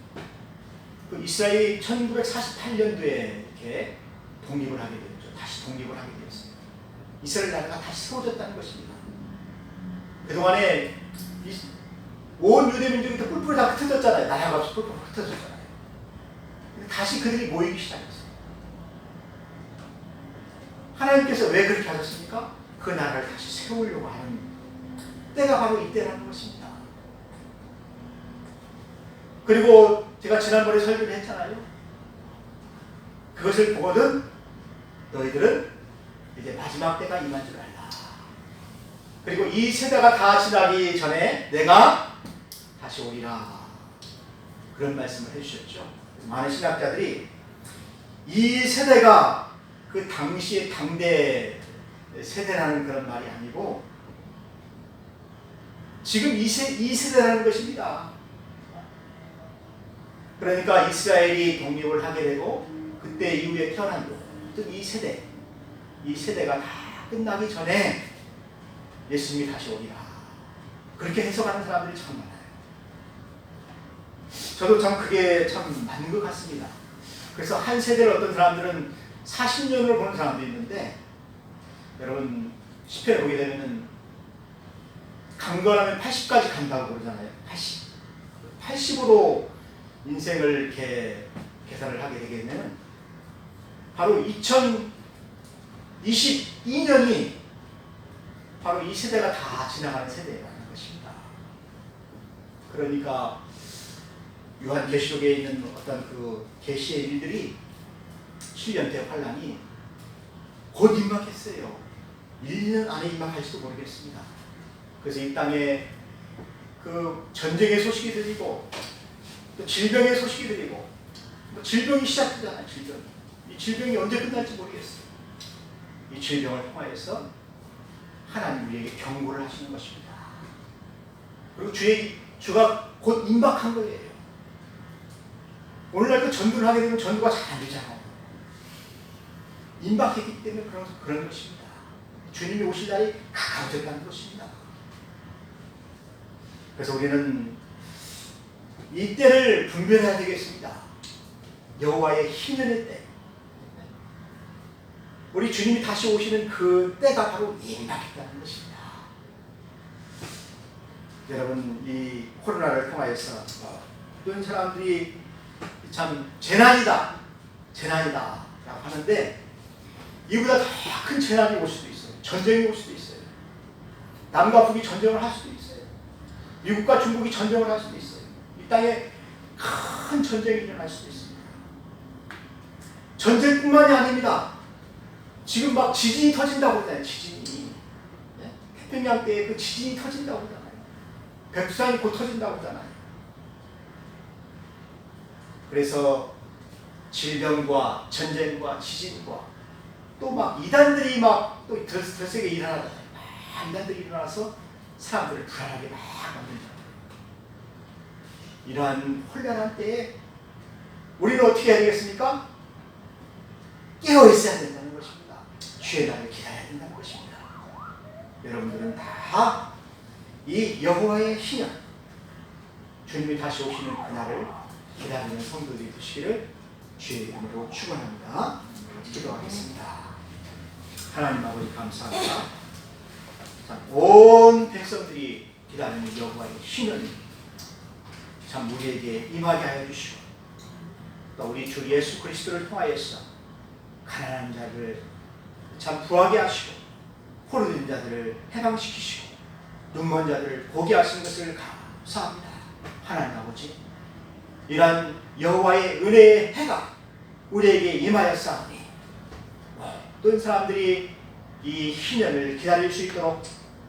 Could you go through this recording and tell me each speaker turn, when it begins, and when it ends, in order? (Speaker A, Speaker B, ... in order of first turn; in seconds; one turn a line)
Speaker A: 1.1-6.5
Speaker A: 7.2-9.0
Speaker A: 10.2-11.7
Speaker A: 12.4-15.7
Speaker A: 16.7-18.3
Speaker A: 20.9-24.5
Speaker A: 25.3-26.8
Speaker A: 29.4-31.6
Speaker A: 33.3-34.2
Speaker A: 35.1-35.7
Speaker A: 36.4-38.2
Speaker A: 39.2-42.1
Speaker A: 42.8-43.8
Speaker A: 44.7-47.3
Speaker A: 48.2-53.8
Speaker A: 56.0-58.1
Speaker A: 60.4-65.2
Speaker A: 66.0-68.0
Speaker A: 69.1-70.3
Speaker A: 71.0-72.5
Speaker A: 74.3-76.8
Speaker A: 77.3-81.0
Speaker A: 82.0-83.9
Speaker A: 85.4-87.8
Speaker A: 88.5-89.5
Speaker A: 90.0-92.8
Speaker A: 93.9-94.9
Speaker A: 96.0-97.4
Speaker A: 98.6-101.3
Speaker A: 102.7-103.4
Speaker A: 104.6-107.5
Speaker A: 108.5-109.6
Speaker A: 110.7-111.8
Speaker A: 112.4-114.3
Speaker A: 115.0-115.9
Speaker A: 116.8-118.7
Speaker A: 119.5-120.9
Speaker A: 121.5-125.0
Speaker A: 126.1-127.2
Speaker A: 128.2-130.4
Speaker A: 131.6-134.2
Speaker A: 135.9-138.3
Speaker A: 139.8-144.6
Speaker A: 146.8-147.6
Speaker A: 148.9-150.9
Speaker A: 151.8-153.1
Speaker A: 155.3-159.0
Speaker A: 161.3-165.1
Speaker A: 165.8-167.1
Speaker A: 167.7-169.4
Speaker A: 170.3-173.3
Speaker A: 174.3-175.9
Speaker A: 176.6-181.6
Speaker A: 183.2-184.5
Speaker A: 185.4-187.8
Speaker A: 188.3-190.9
Speaker A: 191.5-193.0
Speaker A: 195.7-196.3
Speaker A: 197.1-199.5
Speaker A: 200.2-206.9
Speaker A: 208.6-210.1
Speaker A: 211.2-212.4
Speaker A: 214.0-217.6
Speaker A: 218.4-219.6
Speaker A: 220.4-221.8
Speaker A: 223.1-226.4
Speaker A: 227.0-230.1
Speaker A: 231.1-232.5
Speaker A: 233.6-237.2
Speaker A: 238.4-240.2
Speaker A: 241.3-243.2
Speaker A: 244.0-245.0
Speaker A: 245.7-246.8
Speaker A: 247.4-249.3
Speaker A: 249.9-253.8
Speaker A: 254.7-256.9
Speaker A: 257.5-258.9
Speaker A: 259.8-263.4